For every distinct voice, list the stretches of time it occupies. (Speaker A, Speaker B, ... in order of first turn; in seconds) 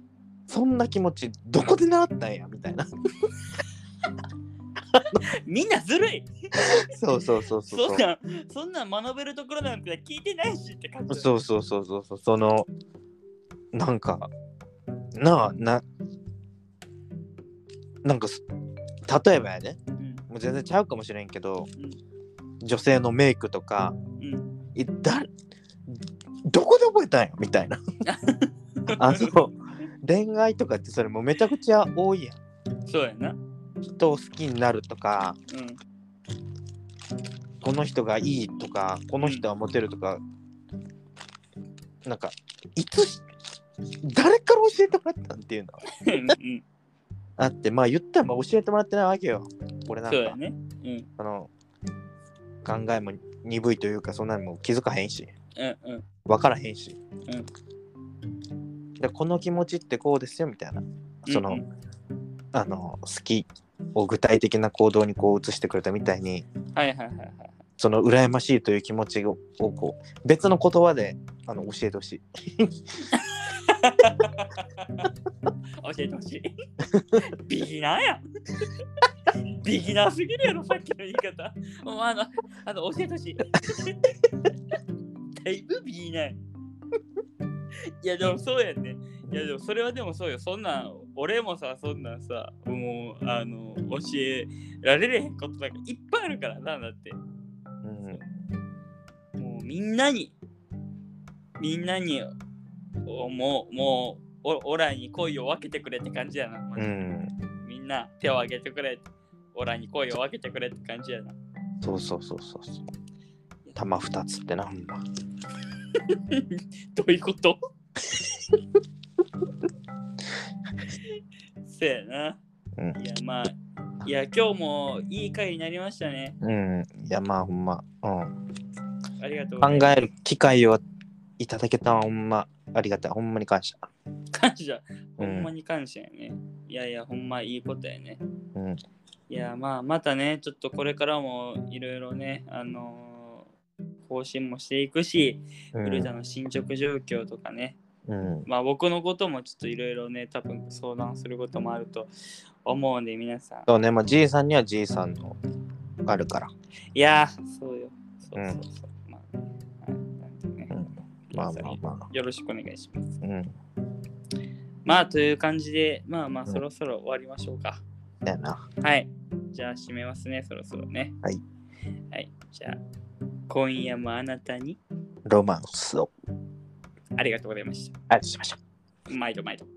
Speaker A: 0.5-2.9, 6.7-8.0, 11.1-12.7, 13.7-14.3, 15.1-15.8, 18.0-18.4, 19.1-21.7, 22.6-23.9, 24.7-25.3, 25.9-27.8, 28.9-32.4, 34.0-35.4, 37.6-40.2, 42.0-43.2, 44.0-45.8, 47.4-50.4, 51.2-51.5, 52.6-55.3, 56.2-57.0, 59.0-61.6, 62.5-66.5, 67.8-73.0, 97.8-98.2, 106.8-107.3, 111.8-112.8, 113.8-115.0, 126.4-128.3, 129.6-130.8, 131.4-133.9, 135.2-135.5, 138.5-138.8, 145.7-146.1, 148.1-148.5, 153.7-155.4, 156.1-156.5, 160.7-162.1, 163.2-163.5, 168.2-168.6, 175.2-176.1, 178.1-178.6
Speaker B: 5.1-6.9, 7.7-11.4, 24.2-24.5, 28.1-29.4, 32.9-33.4, 35.5-35.8, 45.9-46.6, 50.1-51.1, 55.5-56.0, 61.3-61.6, 66.7-67.6, 73.1-75.1, 75.8-78.2, 79.5-84.1, 85.4-86.4, 88.0-97.2, 99.4-100.3, 101.6-102.3, 103.0-106.9, 107.6-111.4, 116.1-117.6, 121.6-122.4, 122.9-126.3, 129.2-130.0, 134.3-138.2, 139.3-143.5, 144.1-147.8, 148.5-152.1, 152.6-153.7, 156.9-159.3, 159.8-160.7, 161.3-163.2, 164.8-167.8, 168.8-171.2, 172.1-172.8, 173.5-174.8, 177.2-177.9, 179.1-179.7